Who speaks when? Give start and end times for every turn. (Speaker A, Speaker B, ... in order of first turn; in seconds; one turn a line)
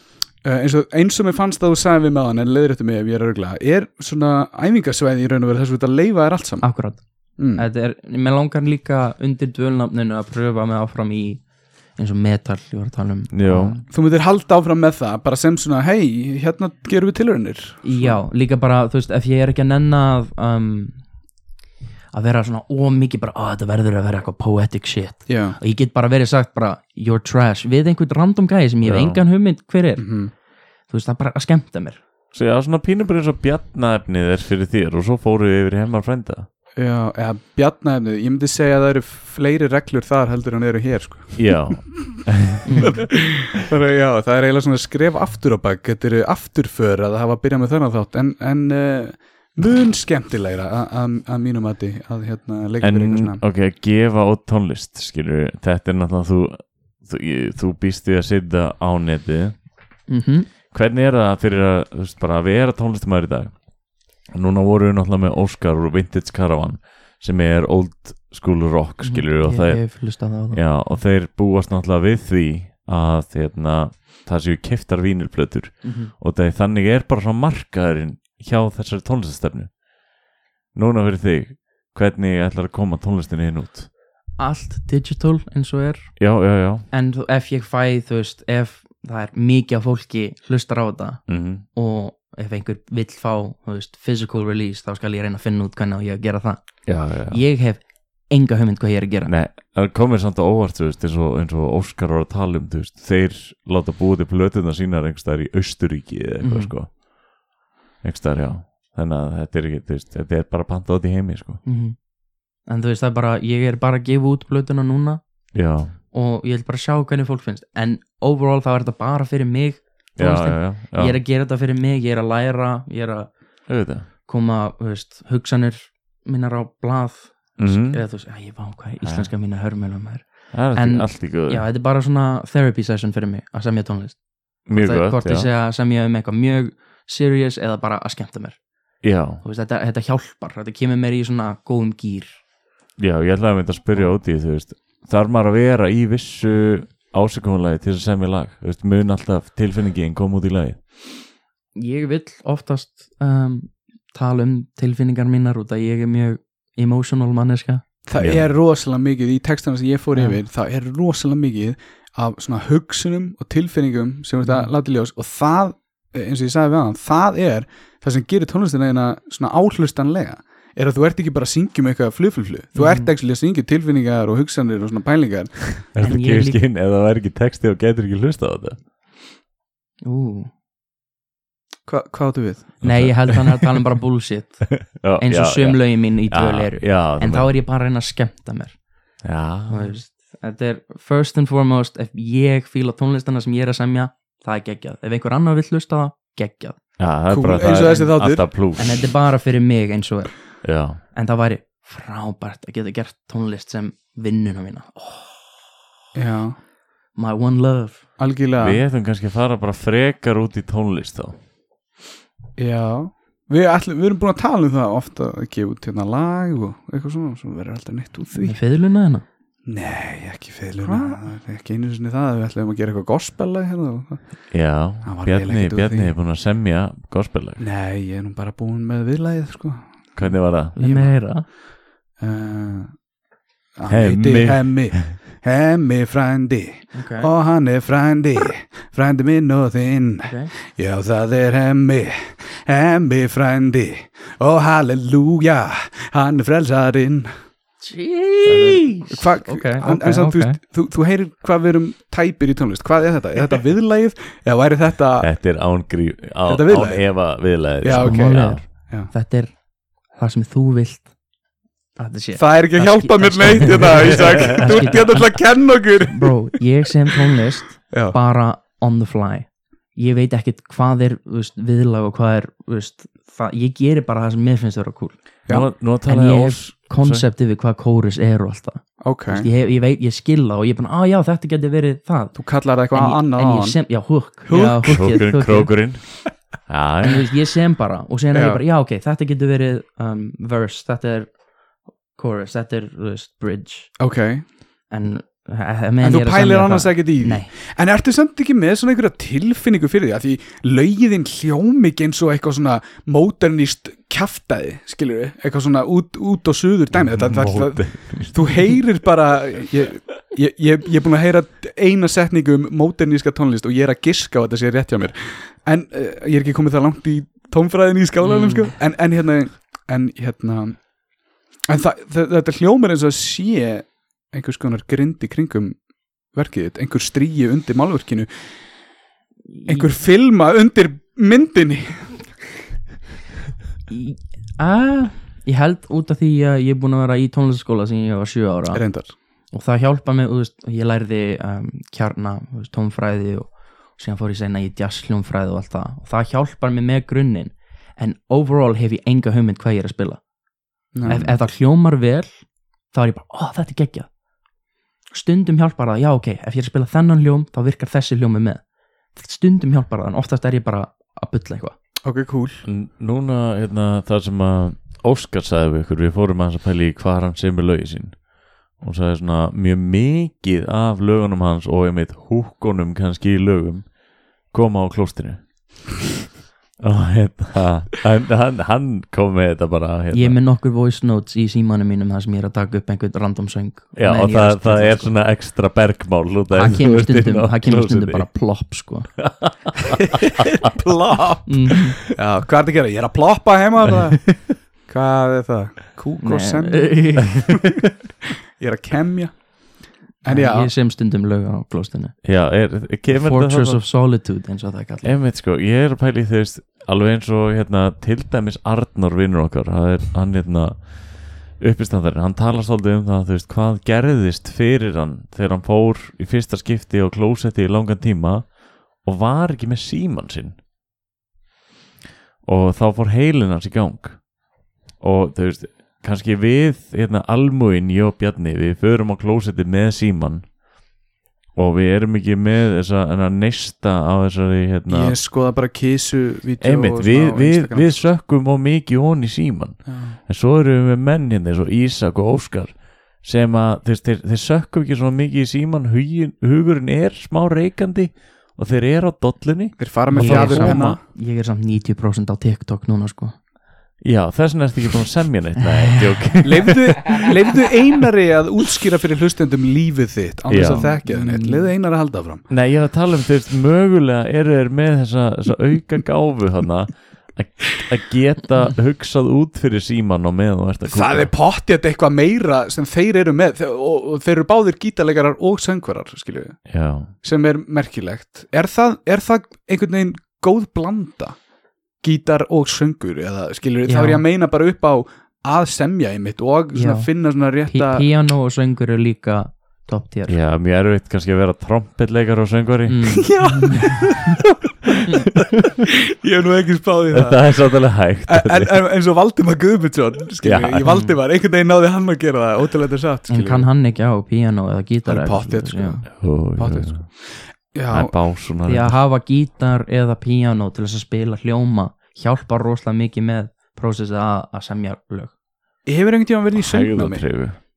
Speaker A: 0.4-6.7
Speaker B: 6.6-13.8
Speaker A: 7.4-7.6
Speaker C: 13.3-13.8
Speaker A: 13.9-18.2
Speaker B: 17.8-21.1
Speaker B: 22.1-30.1
Speaker A: 25.3-25.6
Speaker C: 28.8-29.2
Speaker A: 30.0-30.3
Speaker B: 30.9-32.0
Speaker C: 32.3-36.5
Speaker A: 36.7-41.7
Speaker C: 41.4-43.0
Speaker B: 42.6-43.0
Speaker A: 42.8-53.4
Speaker C: 52.8-59.7
Speaker B: 60.1-60.5
Speaker C: 60.7-79.8
Speaker B: 69.0-70.6
Speaker B: 75.8-76.1
Speaker C: 80.7-83.9
Speaker B: 84.4-86.2
Speaker C: 86.2-86.9
Speaker B: 86.9-91.2
Speaker C: 91.3-91.6
Speaker B: 91.7-99.3
Speaker C: 96.8-97.4
Speaker C: 99.3-107.0
Speaker B: 106.4-106.7
Speaker C: 108.0-111.6
Speaker B: 111.6-112.0
Speaker B: 112.6-115.2
Speaker C: 115.5-116.0
Speaker B: 116.1-123.3
Speaker C: 120.2-121.2
Speaker C: 123.7-124.1
Speaker B: 124.2-138.6
Speaker C: 127.6-128.0
Speaker C: 129.0-129.3
Speaker C: 130.5-131.6
Speaker C: 134.7-135.5
Speaker C: 139.0-139.4
Speaker B: 139.4-142.4
Speaker C: 143.0-150.8
Speaker B: 151.7-157.8
Speaker A: 158.1-175.8
Speaker C: 158.2-158.5
Speaker B: 164.4-164.7
Speaker B: 172.7-173.1
Speaker C: 175.8-178.8
Speaker B: 176.0-176.6
Speaker B: 180.0-180.5
Speaker A: 181.8-182.8
Speaker C: 182.8-183.6
Speaker B: 182.8-188.8
Speaker C: 184.8-187.5
Speaker C: 189.2-189.9
Speaker B: 189.7-196.8
Speaker C: 197.0-199.0
Speaker A: 197.3-198.5
Speaker B: 198.8-205.6
Speaker C: 200.6-201.0
Speaker A: 206.1-206.6
Speaker B: 207.1-208.0
Speaker A: 208.2-208.8
Speaker C: 208.6-211.4
Speaker A: 212.6-218.6
Speaker B: 218.3-219.2
Speaker A: 219.7-224.2
Speaker B: 220.8-221.2
Speaker C: 224.5-227.6
Speaker A: 225.0-226.1
Speaker A: 227.6-231.2
Speaker C: 230.2-230.7
Speaker B: 230.7-231.4
Speaker A: 232.2-232.9
Speaker A: 233.8-247.3
Speaker C: 233.9-235.1
Speaker B: 236.9-237.3
Speaker B: 240.2-240.5
Speaker B: 247.8-250.6
Speaker C: 248.4-248.8
Speaker A: 249.1-255.3
Speaker C: 255.2-258.6
Speaker A: 256.4-259.1
Speaker B: 257.9-261.1
Speaker B: 261.9-275.2
Speaker A: 262.3-266.3
Speaker A: 267.9-268.1
Speaker C: 275.5-277.2
Speaker B: 276.0-282.4
Speaker A: 279.0-279.5
Speaker A: 282.3-283.8
Speaker B: 282.9-285.8
Speaker A: 284.4-285.2
Speaker C: 284.9-287.2
Speaker B: 287.0-291.3
Speaker A: 288.3-288.6
Speaker B: 292.1-293.9
Speaker A: 294.0-294.4
Speaker B: 294.9-297.5
Speaker A: 296.0-320.8
Speaker C: 307.0-308.5
Speaker B: 318.2-318.7
Speaker A: 321.7-325.8
Speaker A: 326.3-328.3
Speaker B: 329.5-329.9
Speaker A: 329.6-332.1
Speaker B: 333.9-338.8
Speaker A: 338.7-339.1
Speaker B: 339.5-350.2
Speaker A: 350.9-351.3
Speaker B: 351.1-354.1
Speaker B: 355.1-358.6
Speaker B: 359.1-361.7
Speaker A: 362.0-362.6
Speaker C: 362.6-373.9
Speaker C: 374.5-375.4
Speaker C: 376.8-380.4
Speaker B: 380.1-385.1
Speaker C: 383.9-388.3
Speaker B: 386.5-389.1
Speaker C: 389.2-390.0
Speaker A: 390.6-397.7
Speaker B: 391.4-392.0
Speaker B: 396.2-397.5
Speaker A: 398.6-399.6
Speaker A: 400.2-400.7
Speaker B: 400.2-402.2
Speaker C: 402.2-403.8
Speaker B: 403.1-405.1
Speaker C: 405.0-420.6
Speaker C: 422.4-424.3
Speaker C: 425.0-430.5
Speaker C: 431.5-435.1
Speaker A: 434.9-438.1
Speaker C: 436.6-451.0
Speaker A: 439.9-440.2
Speaker A: 449.8-451.0
Speaker B: 450.1-453.4
Speaker C: 454.0-457.1
Speaker A: 456.4-462.4
Speaker C: 460.5-460.9
Speaker B: 460.6-461.7
Speaker C: 462.5-471.3
Speaker A: 470.8-476.6
Speaker C: 476.7-477.1
Speaker A: 477.2-481.4
Speaker A: 482.0-488.1
Speaker B: 483.8-484.2
Speaker B: 486.7-490.4
Speaker C: 490.3-493.4
Speaker B: 492.9-494.1
Speaker A: 493.2-494.3
Speaker A: 496.2-503.7
Speaker C: 497.1-498.8
Speaker C: 500.4-500.9
Speaker B: 500.9-501.1
Speaker B: 503.3-506.0
Speaker A: 505.0-507.1
Speaker C: 506.2-507.0
Speaker A: 507.7-508.1
Speaker C: 507.9-508.9
Speaker B: 508.6-515.3
Speaker A: 515.9-517.2
Speaker C: 516.5-517.6